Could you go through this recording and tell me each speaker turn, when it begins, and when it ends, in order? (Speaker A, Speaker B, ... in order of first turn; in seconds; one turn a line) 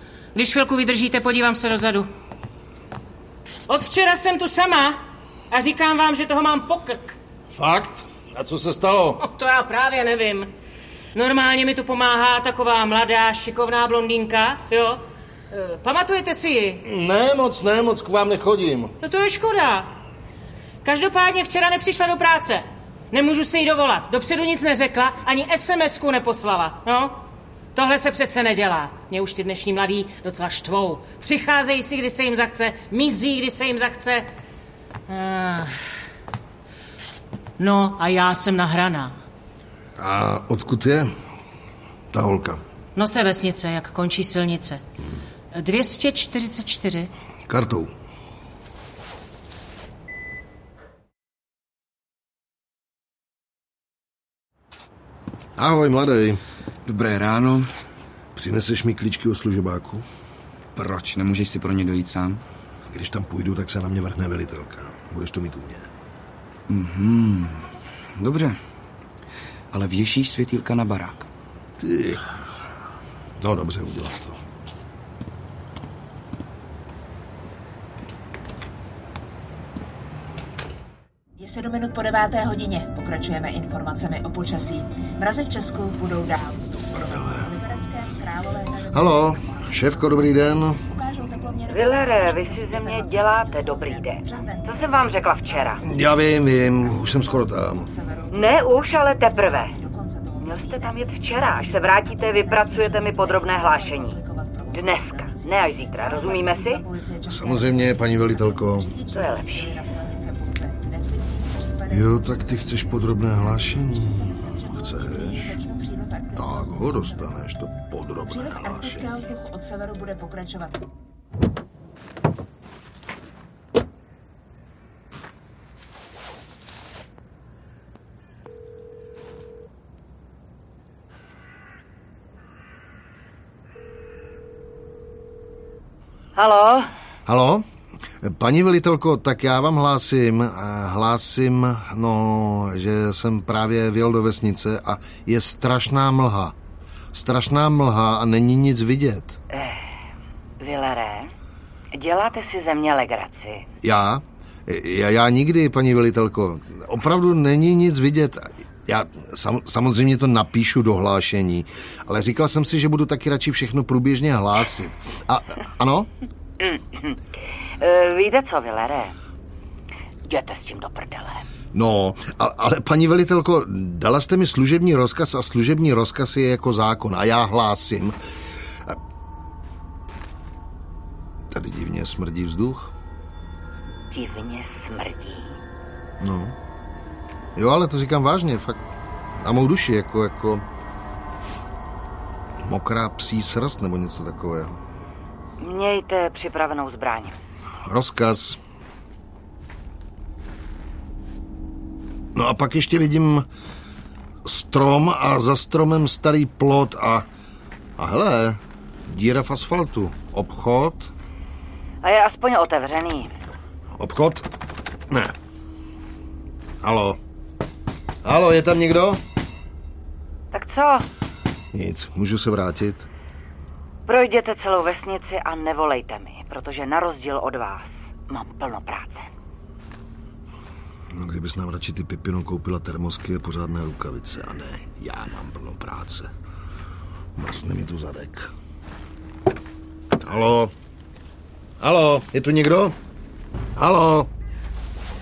Speaker A: 0.3-2.1
Speaker A: 3.7-7.2
Speaker B: 7.5-9.2
Speaker A: 9.2-10.5
Speaker A: 11.1-15.0
Speaker A: 15.5-16.8
Speaker B: 16.8-18.9
Speaker A: 19.0-19.9
Speaker A: 20.8-27.1
Speaker A: 27.7-34.3
Speaker A: 35.1-35.7
Speaker A: 37.6-39.1
Speaker B: 40.0-41.1
Speaker B: 42.1-42.6
Speaker A: 43.0-44.8
Speaker A: 45.5-47.1
Speaker B: 47.5-47.9
Speaker B: 55.6-56.4
Speaker C: 56.9-57.7
Speaker B: 58.3-60.0
Speaker C: 60.8-62.4
Speaker B: 62.9-65.9
Speaker C: 66.7-68.6
Speaker C: 69.7-71.3
Speaker B: 71.8-72.2
Speaker B: 73.4-74.4
Speaker D: 81.4-87.0
Speaker B: 86.9-87.5
Speaker D: 87.5-88.8
Speaker B: 88.8-90.8
Speaker D: 91.1-91.7
Speaker E: 91.7-95.8
Speaker B: 95.8-97.9
Speaker D: 98.0-98.3
Speaker E: 98.3-99.8
Speaker D: 99.7-100.4
Speaker E: 100.4-106.8
Speaker D: 104.2-104.7
Speaker B: 107.2-108.9
Speaker E: 109.1-109.8
Speaker D: 109.7-111.8
Speaker B: 111.9-115.6
Speaker D: 114.2-114.5
Speaker D: 115.5-116.3
Speaker B: 116.3-119.2
Speaker D: 119.2-120.8
Speaker E: 136.3-136.9
Speaker B: 137.2-137.6
Speaker B: 138.2-146.5
Speaker B: 147.1-149.4
Speaker E: 149.5-149.8
Speaker E: 150.6-151.3
Speaker E: 151.9-153.6
Speaker B: 153.8-166.1
Speaker E: 166.6-167.2
Speaker E: 167.8-169.1
Speaker E: 170.3-171.4
Speaker B: 171.7-178.2
Speaker B: 181.5-182.9
Speaker E: 184.1-185.6
Speaker B: 186.2-186.5
Speaker B: 187.6-188.8
Speaker B: 189.4-190.6
Speaker B: 192.6-194.8
Speaker E: 195.6-197.3
Speaker B: 197.8-198.6
Speaker B: 202.3-203.4
Speaker B: 204.4-207.2
Speaker B: 208.0-211.1
Speaker E: 212.0-213.3
Speaker B: 213.9-214.5
Speaker B: 216.8-217.2
Speaker B: 218.2-219.2
Speaker E: 220.5-221.1
Speaker B: 221.7-223.1
Speaker E: 224.1-229.3
Speaker B: 231.1-236.3
Speaker B: 237.3-238.5
Speaker B: 240.2-240.7
Speaker B: 241.8-242.9
Speaker B: 243.8-244.3